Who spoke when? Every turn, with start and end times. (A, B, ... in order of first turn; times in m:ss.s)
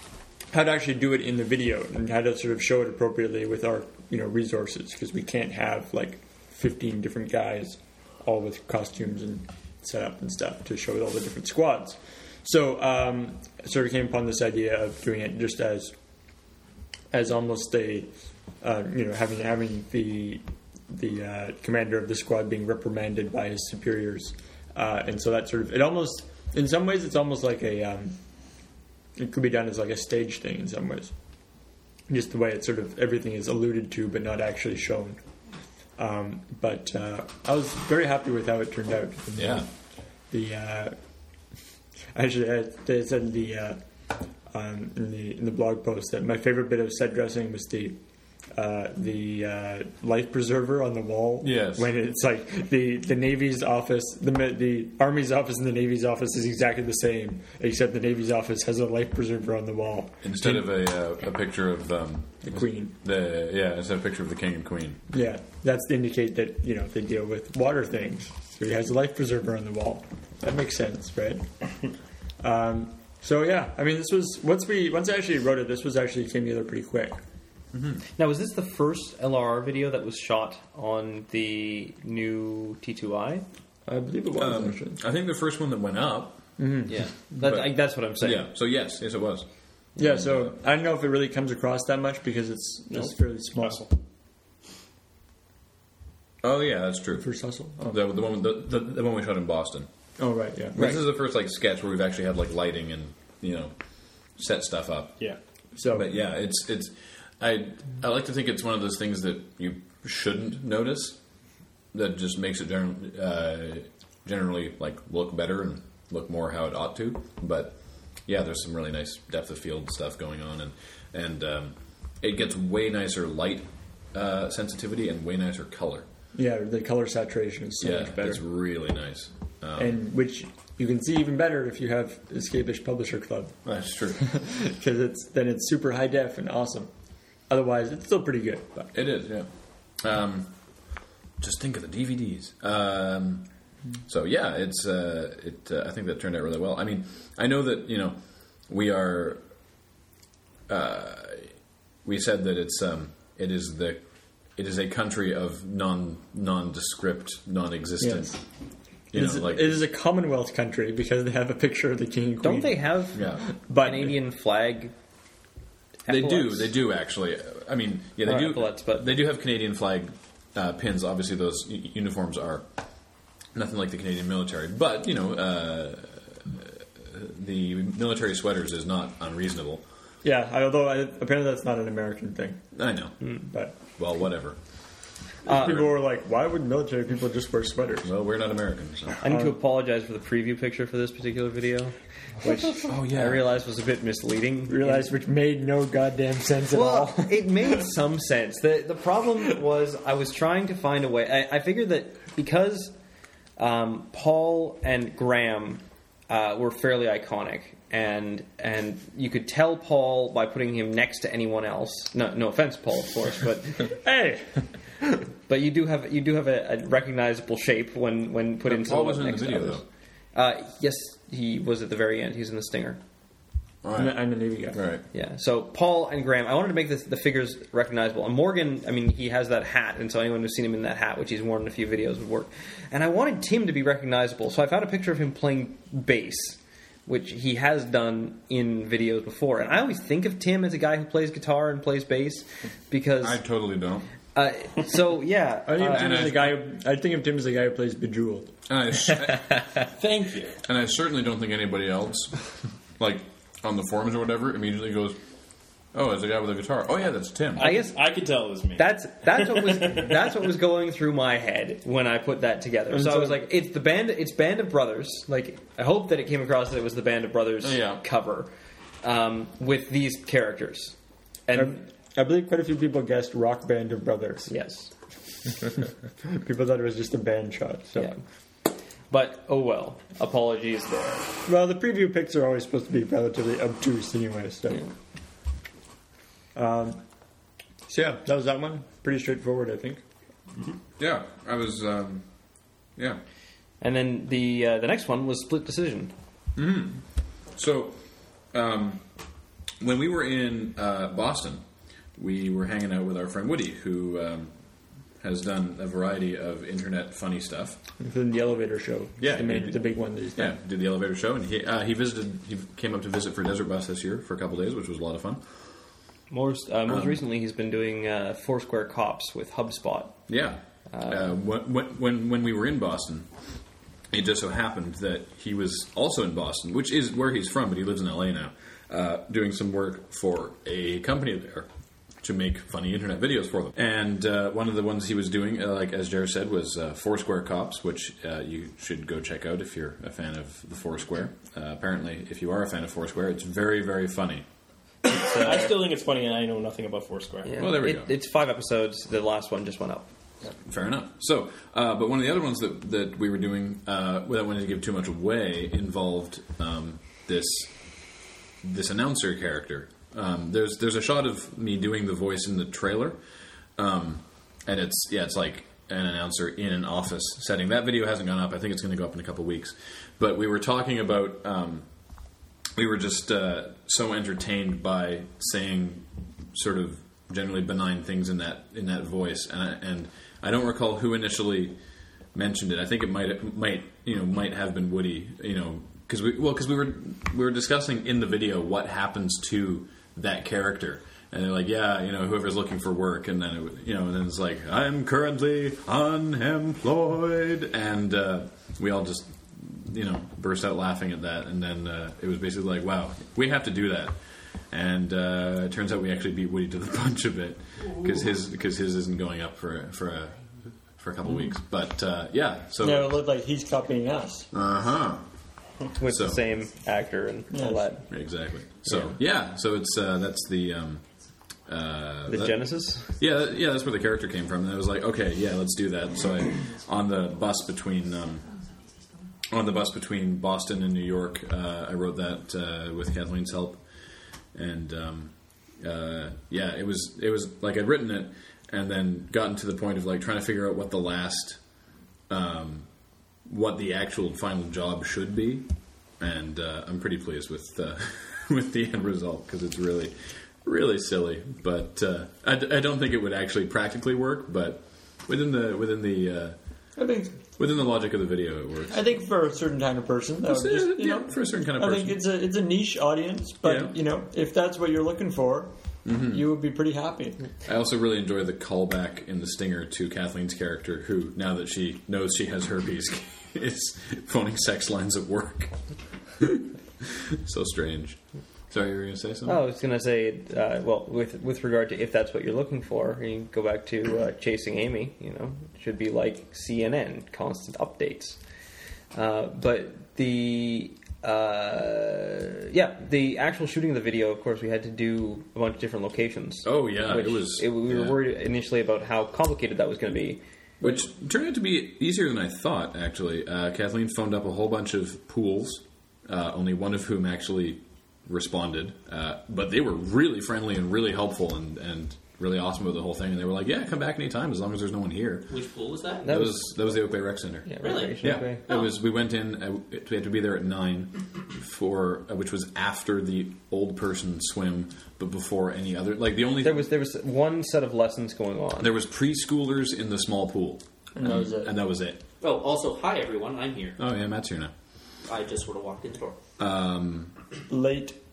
0:00.5-0:15.9 A
0:17.1-0:28.2 A
0:29.2-0:31.1 A
0:32.1-0:35.2 A
0:36.0-0:39.7 A
0:39.4-0:39.7 B
0:40.3-0:41.0 A
0:42.1-0:43.8 A
0:44.5-0:48.0 A
0:48.5-1:00.7 A
0:51.4-0:51.9 B
1:00.2-1:05.0 B
1:02.4-1:02.9 A
1:05.1-1:11.4 A
1:12.4-1:17.2 A
1:17.7-1:18.0 B
1:18.2-1:23.4 C
1:23.8-1:25.0 A
1:24.4-1:26.6 B
1:26.6-1:26.9 A
1:26.9-1:28.5 C
1:27.4-1:29.5 B
1:30.0-1:33.9 A
1:30.0-1:30.5 B
1:32.9-1:33.9 D
1:36.4-1:37.3 B
1:37.2-1:38.0 A
1:37.9-1:39.9 B
1:40.2-1:41.0 A
1:40.7-1:43.7 B
1:44.4-1:45.2 B
1:45.8-1:46.1 A
1:45.9-1:51.2 B
1:51.9-2:06.0 B
2:06.3-2:08.4 A
2:07.8-2:10.0 B
2:09.8-2:13.5 A
2:13.6-2:14.2 B
2:14.2-2:16.9 A
2:17.5-2:18.9 A
2:18.9-2:19.5 B
2:20.0-2:20.5 B
2:21.4-2:23.4 B
2:24.1-2:28.2 B
2:28.7-2:29.4 B
2:30.7-2:31.5 B
2:32.0-2:34.0 B
2:34.6-2:38.4 B
2:38.0-2:38.4 A
2:39.1-2:39.8 B
2:39.1-2:44.2 A
2:42.4-2:43.2 C
2:43.1-2:43.4 B
2:43.8-2:44.9 C
2:46.1-2:46.7 C
2:46.1-2:52.6 B
2:48.2-2:49.2 C
2:53.5-2:59.8 B
3:00.2-3:02.6 A
3:02.7-3:03.2 B
3:03.5-3:03.8 A
3:03.9-3:04.6 B
3:05.4-3:05.7 C
3:05.5-3:05.9 B
3:05.5-3:08.1 A
3:08.0-3:09.2 B
3:09.2-3:15.1 C
3:09.2-3:09.6 A
3:12.4-3:12.9 A
3:12.8-3:13.5 B
3:14.7-3:17.8 A
3:16.7-3:22.9 C
3:23.6-3:33.9 C
3:33.9-3:34.6 A
3:35.5-3:39.8 C
3:38.6-3:39.8 B
3:40.3-3:43.0 C
3:43.8-3:45.0 B
3:44.0-3:44.8 A
3:45.1-4:03.4 C
4:03.2-4:04.1 B
4:04.3-4:06.2 C
4:05.6-4:08.5 A
4:05.8-4:06.6 B
4:08.7-4:09.8 B
4:09.8-4:10.6 D
4:10.6-4:12.4 B
4:13.0-4:15.2 B
4:15.9-4:17.7 B
4:17.6-4:20.1 D
4:17.6-4:18.0 C
4:18.7-4:28.5 C
4:22.9-4:23.4 A
4:27.6-4:28.0 B
4:29.0-4:31.0 C
4:31.5-4:31.8 C
4:31.5-4:34.5 A
4:34.5-4:34.9 C
4:36.2-4:38.1 A
4:39.1-4:41.2 C
4:41.4-4:44.8 A
4:46.5-4:47.0 A
4:47.9-4:50.0 A
4:51.0-4:52.2 B
4:53.8-4:56.1 C
4:56.6-4:57.0 B
4:57.5-4:58.0 B
4:58.5-4:59.0 B
4:59.8-5:01.6 B
5:02.2-5:04.5 B
5:05.2-5:07.8 B
5:08.0-5:10.6 A
5:09.2-5:15.4 B
5:16.3-5:20.2 C
5:16.9-5:17.2 B
5:20.3-5:23.3 B
5:20.9-5:21.3 C
5:24.1-5:31.7 B
5:32.2-5:44.4 B
5:45.0-5:47.6 D
5:45.1-5:45.7 C
5:47.4-5:50.1 C
5:47.6-5:48.1 B
5:50.6-5:57.7 B
5:58.6-6:03.2 B
6:03.8-6:11.8 B
6:12.7-6:21.8 B
6:22.3-6:44.2 B
6:44.7-6:50.4 B
6:51.0-6:53.2 B
6:52.8-6:54.5 A
6:54.5-6:55.2 B
6:56.0-6:58.0 C
6:56.0-6:56.4 B
6:57.5-6:57.9 A
6:58.1-7:01.0 B
7:01.7-7:02.6 B
7:02.3-7:03.1 C
7:03.2-7:08.4 B
7:09.5-7:13.8 B
7:14.5-7:21.6 B
7:22.3-7:22.8 B
7:23.4-7:25.7 B
7:26.2-7:36.6 B
7:37.0-7:37.4 A
7:37.6-7:39.0 B
7:38.9-7:45.7 A
7:40.4-7:42.2 B
7:43.6-7:43.9 B
7:46.0-7:46.5 B
7:46.2-7:47.4 A
7:47.6-7:55.7 B
7:56.4-7:58.2 B
7:58.7-7:59.6 B
7:59.4-8:08.4 C
8:09.1-8:20.4 C
8:16.6-8:18.2 B
8:20.8-8:35.5 B
8:35.5-8:36.4 E
8:36.2-8:36.7 C
8:36.2-8:46.9 B
8:37.6-8:38.6 C
8:37.8-8:38.4 E
8:46.6-8:48.9 C
8:48.8-8:52.2 B
8:51.2-8:51.7 A
8:52.4-8:54.0 E
8:54.0-8:54.7 B
8:55.2-8:56.4 E
8:56.6-8:57.3 B
8:57.7-8:58.2 A